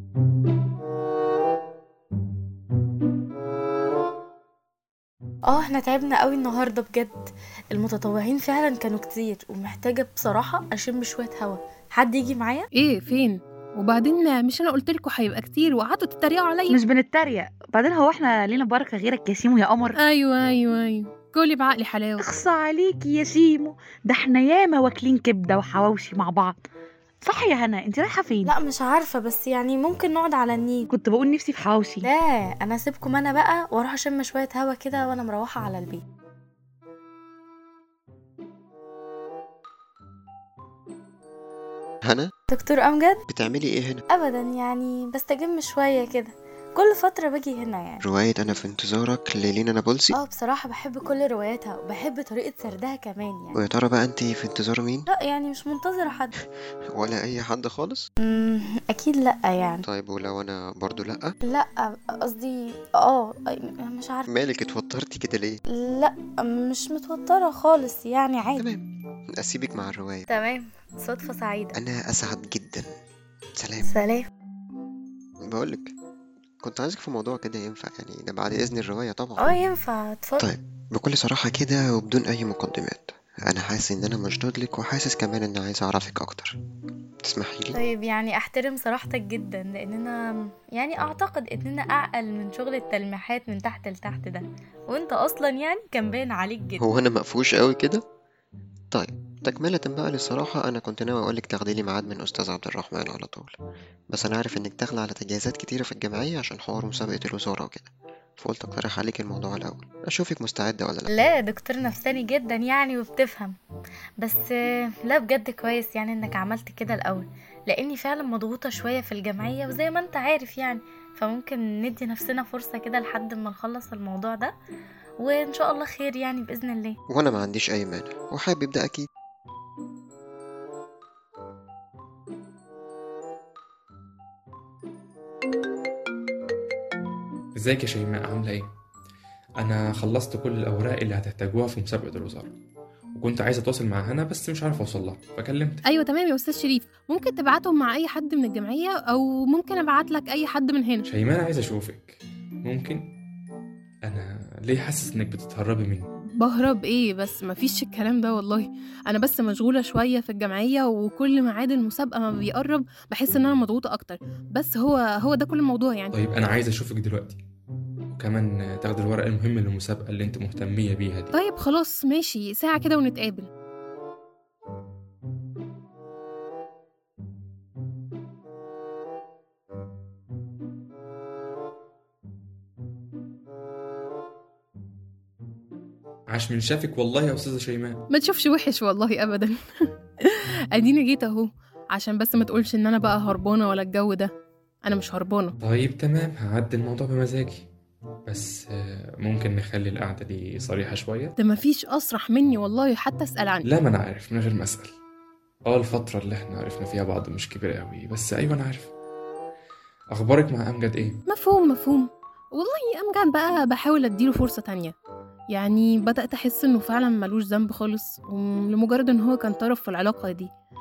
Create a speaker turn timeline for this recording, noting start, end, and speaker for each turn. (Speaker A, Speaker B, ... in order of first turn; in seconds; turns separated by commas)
Speaker A: 5.5-12.7, Speaker B: 12.7-16.8, Speaker C: 16.7-20.0, Speaker B: 19.9-22.2, Speaker C: 22.2-26.6, Speaker C: 27.2-28.5, Speaker A: 28.5-30.9, Speaker C: 30.9-32.1, Speaker A: 32.0-36.0, Speaker A: 42.5-43.2, Speaker D: 43.3-44.0, Speaker A: 44.1-48.0, Speaker D: 48.0-50.2, Speaker A: 50.1-53.6, Speaker D: 53.6-55.1, Speaker A: 55.1-56.3, Speaker D: 56.9-58.1, Speaker A: 58.2-59.9, Speaker D: 59.9-61.3, Speaker A: 61.5-64.3, Speaker D: 64.3-65.6, Speaker A: 65.7-68.7, Speaker D: 68.6-68.8, Speaker D: 69.4-70.3, Speaker A: 70.3-71.8, Speaker D: 71.8-72.9, Speaker D: 73.6-73.9, Speaker A: 73.8-74.3, Speaker D: 75.5-75.9, Speaker D: 76.6-79.5, Speaker A: 79.4-80.5, Speaker D: 80.4-86.6, Speaker D: 87.2-87.8, Speaker A: 87.7-96.8, Speaker D: 96.8-98.0, Speaker D: 98.9-103.5, Speaker D: 104.1-111.1, Speaker A: 111.1-113.6, Speaker A: 114.2-114.5, Speaker A: 115.0-124.5, Speaker A: 125.2-127.0, Speaker D: 127.1-129.1, Speaker E: 137.6-138.7, Speaker E: 139.6-142.6, Speaker E: 143.2-145.8, Speaker B: 145.8-151.1, Speaker E: 151.1-153.1, Speaker E: 154.1-156.1, Speaker B: 156.4-166.2, Speaker E: 166.1-167.4, Speaker E: 168.1-171.3, Speaker B: 171.3-173.5, Speaker E: 186.3-188.0, Speaker B: 188.1-189.6, Speaker B: 190.2-194.3, Speaker B: 194.8-195.5, Speaker E: 195.6-197.7, Speaker E: 198.3-201.3, Speaker B: 201.4-203.7, Speaker E: 203.7-204.9, Speaker E: 205.7-208.9, Speaker E: 210.1-211.2, Speaker B: 211.3-214.9, Speaker B: 215.5-220.5